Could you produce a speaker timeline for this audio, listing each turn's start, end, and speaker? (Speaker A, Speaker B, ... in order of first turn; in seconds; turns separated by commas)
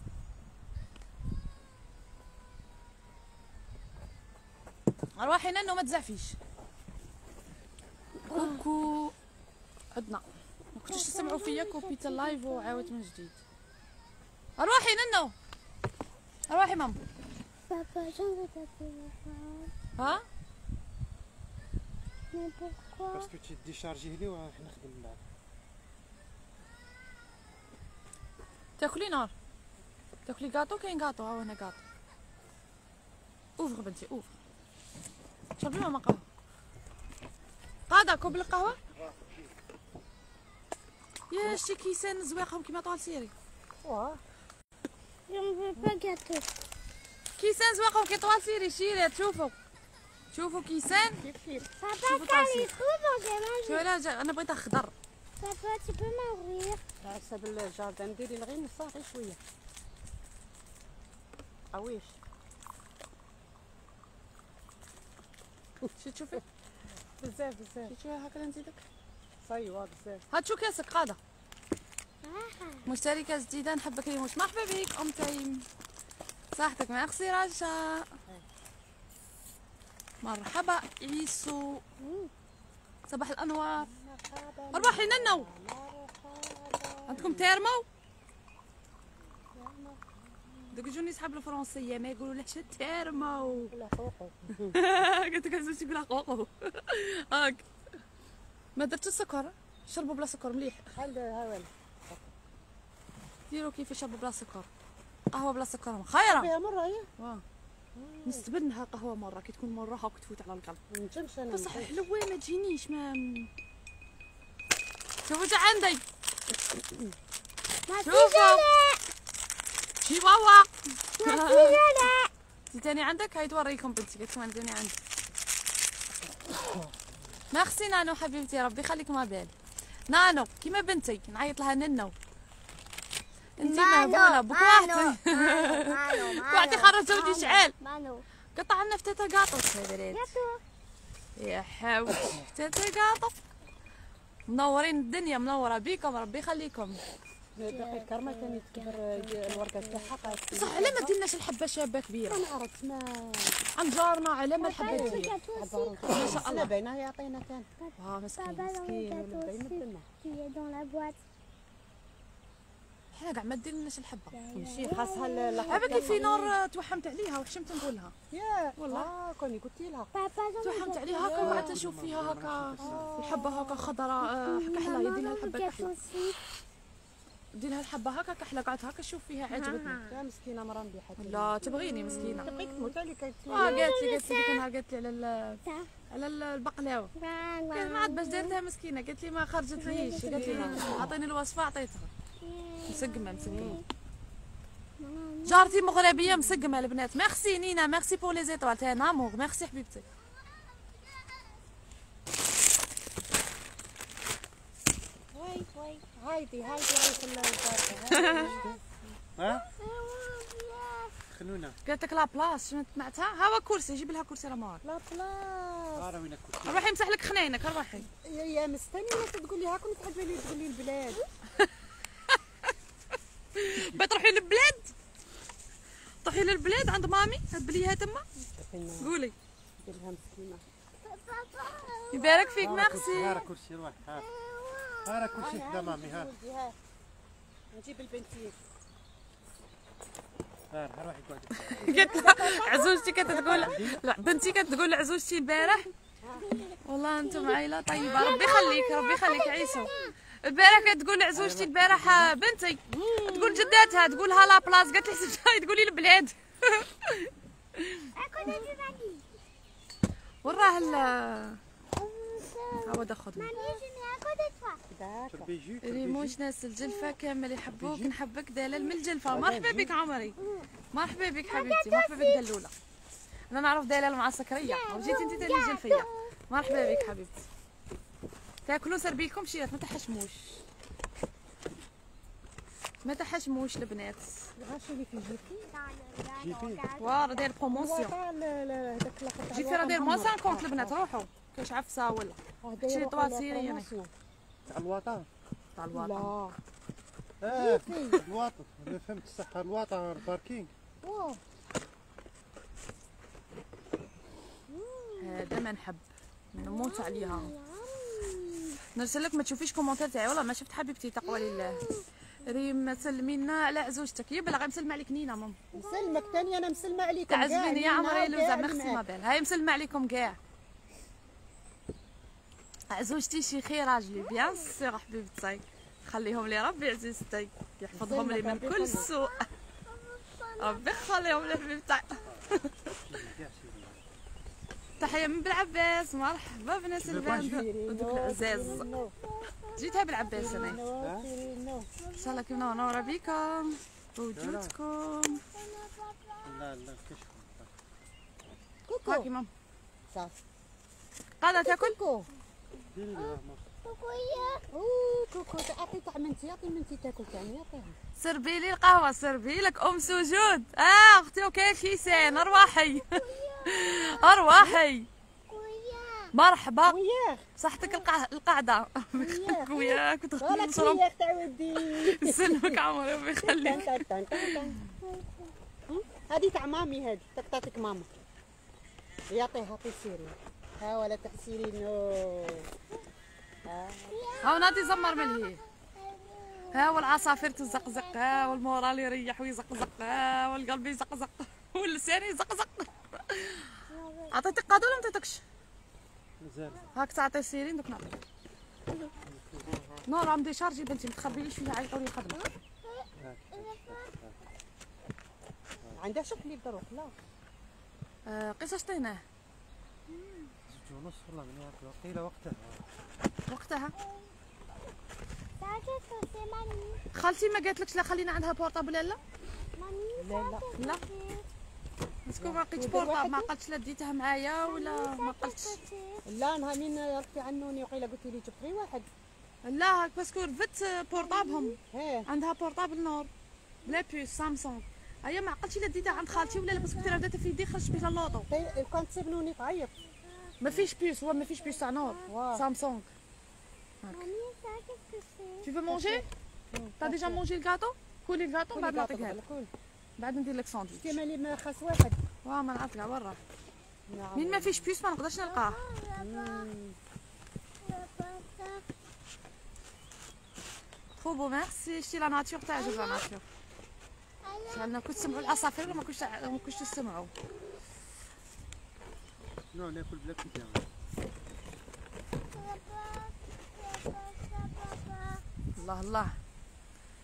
Speaker A: 5.2-6.4, Speaker A: 8.3-9.1, Speaker A: 9.9-13.4, Speaker B: 10.9-12.9, Speaker A: 14.6-15.3, Speaker A: 16.5-17.0, Speaker B: 17.7-19.7, Speaker A: 19.9-20.2, Speaker B: 22.3-23.3, Speaker C: 23.1-25.2, Speaker A: 28.8-29.3, Speaker A: 30.3-31.8, Speaker A: 33.6-34.3, Speaker A: 35.6-36.2, Speaker A: 37.9-38.8, Speaker A: 41.3-43.3, Speaker D: 43.8-44.2, Speaker B: 45.3-46.5, Speaker A: 47.4-49.5, Speaker A: 50.3-51.2, Speaker D: 50.9-51.7, Speaker B: 51.8-53.8, Speaker A: 52.0-52.7, Speaker A: 53.6-54.9, Speaker B: 55.4-56.8, Speaker D: 57.0-59.4, Speaker D: 61.7-62.1, Speaker D: 65.8-66.4, Speaker A: 66.0-66.4, Speaker D: 67.2-67.9, Speaker A: 67.9-68.8, Speaker D: 69.4-70.2, Speaker A: 70.3-71.2, Speaker B: 72.2-72.9, Speaker A: 72.8-75.7, Speaker A: 76.5-78.1, Speaker A: 80.2-81.8, Speaker D: 82.0-82.3, Speaker A: 83.1-83.9, Speaker D: 83.8-87.5, Speaker A: 84.7-85.5, Speaker A: 87.1-87.8, Speaker D: 89.5-90.2, Speaker A: 90.7-93.7, Speaker D: 93.7-94.8, Speaker A: 94.7-97.7, Speaker A: 98.8-100.9, Speaker D: 100.9-102.2, Speaker A: 103.5-104.7, Speaker A: 105.3-106.5, Speaker D: 106.3-107.1, Speaker A: 107.2-107.4, Speaker D: 107.9-108.4, Speaker A: 108.2-110.8, Speaker D: 110.9-112.0, Speaker A: 111.5-113.5, Speaker A: 115.2-116.0, Speaker D: 116.7-117.1, Speaker B: 117.9-119.0, Speaker A: 118.0-118.6, Speaker A: 120.0-122.1, Speaker B: 121.2-122.3, Speaker A: 122.7-124.9, Speaker A: 127.5-129.5, Speaker A: 130.1-132.2, Speaker A: 133.6-137.8, Speaker B: 133.6-138.2, Speaker A: 138.5-140.4, Speaker B: 140.1-140.6, Speaker A: 141.3-143.4, Speaker A: 144.5-147.0, Speaker D: 147.6-151.2, Speaker B: 147.7-150.4, Speaker A: 150.5-152.5, Speaker D: 152.3-153.6, Speaker A: 153.8-155.3, Speaker B: 154.6-156.5, Speaker D: 154.8-157.7, Speaker A: 156.1-156.7, Speaker B: 157.8-161.2, Speaker A: 158.0-158.7, Speaker D: 158.8-160.0, Speaker A: 163.1-164.3, Speaker B: 164.3-166.4, Speaker D: 164.5-166.5, Speaker A: 165.7-168.1, Speaker D: 168.3-170.1, Speaker A: 168.8-169.1, Speaker B: 170.1-171.8, Speaker A: 170.6-175.9, Speaker C: 171.4-173.1, Speaker D: 172.8-173.7, Speaker B: 173.5-176.4, Speaker A: 177.5-180.0, Speaker B: 179.6-180.1, Speaker D: 180.0-183.9, Speaker A: 181.2-182.5, Speaker B: 181.7-182.9, Speaker B: 183.5-184.6, Speaker A: 183.5-187.1, Speaker B: 187.2-188.5, Speaker A: 187.7-192.1, Speaker B: 189.8-191.1, Speaker D: 189.9-191.1, Speaker B: 192.4-193.8, Speaker A: 192.9-193.8, Speaker D: 193.5-193.8, Speaker B: 195.0-196.7, Speaker A: 195.4-200.0, Speaker B: 205.4-206.0, Speaker D: 206.1-208.8, Speaker A: 208.1-208.5, Speaker C: 209.3-209.7, Speaker B: 209.4-211.2, Speaker C: 211.3-211.8, Speaker A: 211.8-214.8, Speaker D: 214.8-216.1, Speaker C: 216.0-216.9, Speaker A: 216.6-218.1, Speaker D: 218.2-221.2, Speaker A: 222.3-222.7, Speaker A: 223.5-224.9, Speaker C: 223.7-224.0, Speaker A: 226.2-228.2, Speaker D: 228.6-229.1, Speaker A: 229.0-229.3, Speaker D: 229.8-230.6, Speaker B: 231.0-233.5, Speaker A: 232.1-233.5, Speaker C: 232.6-234.3, Speaker B: 234.1-235.6, Speaker C: 235.0-236.3, Speaker D: 235.3-236.8, Speaker D: 237.7-238.6, Speaker C: 240.7-242.1, Speaker A: 241.7-245.9, Speaker D: 241.8-243.8, Speaker C: 243.4-244.0, Speaker D: 246.2-246.5, Speaker B: 246.4-250.1, Speaker A: 246.8-249.9, Speaker A: 250.4-258.6, Speaker C: 251.3-252.3, Speaker D: 252.9-253.3, Speaker B: 253.1-255.2, Speaker B: 258.1-259.2, Speaker A: 260.4-261.6, Speaker B: 260.5-261.1, Speaker B: 262.0-264.8, Speaker A: 262.8-263.5, Speaker D: 263.6-263.8, Speaker D: 264.9-265.5, Speaker C: 265.3-266.4, Speaker A: 265.8-270.4, Speaker B: 266.8-267.1, Speaker C: 267.8-268.1, Speaker C: 269.3-269.9, Speaker B: 270.4-270.6, Speaker A: 270.9-272.7, Speaker B: 271.4-272.4, Speaker A: 273.5-277.4, Speaker B: 274.6-277.1, Speaker A: 278.6-280.6, Speaker A: 283.0-284.3, Speaker D: 284.6-285.6, Speaker B: 285.6-287.5, Speaker C: 286.4-286.8, Speaker A: 287.0-288.1, Speaker D: 287.7-291.1, Speaker A: 289.5-293.9, Speaker D: 292.6-294.1, Speaker C: 294.7-295.3, Speaker A: 295.8-296.3, Speaker D: 295.9-296.6, Speaker C: 297.4-300.7, Speaker D: 297.5-298.2, Speaker D: 301.0-301.4, Speaker B: 304.7-305.4, Speaker A: 305.2-307.5, Speaker B: 306.6-308.8, Speaker A: 308.9-311.8, Speaker B: 311.2-312.0, Speaker A: 312.4-315.6, Speaker B: 315.7-316.4, Speaker D: 315.7-319.0, Speaker A: 317.3-320.4, Speaker A: 322.9-329.4, Speaker B: 324.3-324.7, Speaker D: 327.9-329.1, Speaker B: 328.9-329.3, Speaker B: 329.9-331.6, Speaker A: 330.6-332.7, Speaker C: 333.1-334.0, Speaker A: 335.0-338.9, Speaker C: 337.0-337.6, Speaker D: 337.1-339.1, Speaker B: 339.2-339.8, Speaker A: 339.8-340.8, Speaker D: 340.3-341.9, Speaker C: 341.0-341.3, Speaker B: 342.0-343.4, Speaker A: 342.2-345.4, Speaker C: 344.4-344.8, Speaker B: 345.5-346.6, Speaker C: 346.4-347.7, Speaker D: 348.9-349.3, Speaker A: 349.1-349.5, Speaker A: 351.4-351.9, Speaker D: 351.6-352.3, Speaker C: 352.9-353.6, Speaker B: 353.1-354.6, Speaker D: 354.7-357.9, Speaker A: 358.2-365.1, Speaker B: 362.1-364.8, Speaker B: 365.5-366.3, Speaker A: 366.3-367.0, Speaker D: 366.8-367.4, Speaker A: 367.6-371.0, Speaker D: 369.2-372.8, Speaker A: 371.8-374.7, Speaker D: 373.4-374.8, Speaker B: 375.1-375.5, Speaker D: 375.9-378.1, Speaker D: 379.3-382.7, Speaker D: 383.6-384.2, Speaker B: 384.1-388.6, Speaker A: 384.4-385.6, Speaker A: 386.7-393.7, Speaker B: 393.9-395.0, Speaker A: 394.3-395.4, Speaker C: 396.4-396.8, Speaker A: 396.9-398.2, Speaker C: 399.3-399.9, Speaker A: 400.1-402.4, Speaker B: 402.8-404.1, Speaker C: 403.2-404.4, Speaker D: 405.9-407.1, Speaker A: 408.3-409.2, Speaker B: 410.2-410.5, Speaker C: 410.6-412.8, Speaker A: 413.5-413.9, Speaker B: 415.6-417.0, Speaker A: 417.1-419.2, Speaker B: 419.8-421.4, Speaker D: 420.2-420.8, Speaker A: 422.2-425.8, Speaker D: 422.4-423.5, Speaker B: 424.6-426.3, Speaker D: 426.2-429.1, Speaker A: 429.6-433.3, Speaker B: 431.1-431.7, Speaker D: 431.8-432.3, Speaker A: 433.9-438.4, Speaker B: 436.0-437.2, Speaker D: 438.5-439.9, Speaker A: 440.6-443.1, Speaker B: 441.5-442.3, Speaker D: 442.3-442.6, Speaker B: 444.1-445.7, Speaker A: 445.6-446.2, Speaker D: 445.9-447.4, Speaker A: 447.0-449.4, Speaker D: 448.7-449.7, Speaker A: 450.2-451.2, Speaker D: 450.9-452.2, Speaker A: 452.4-453.4, Speaker D: 454.1-454.9, Speaker A: 454.4-455.8, Speaker B: 455.5-456.7, Speaker D: 456.2-457.0, Speaker B: 457.8-458.8, Speaker A: 461.2-463.4, Speaker B: 462.8-463.2, Speaker B: 464.4-465.8, Speaker A: 464.7-467.3, Speaker C: 469.7-470.9, Speaker B: 472.5-475.4, Speaker A: 475.8-476.4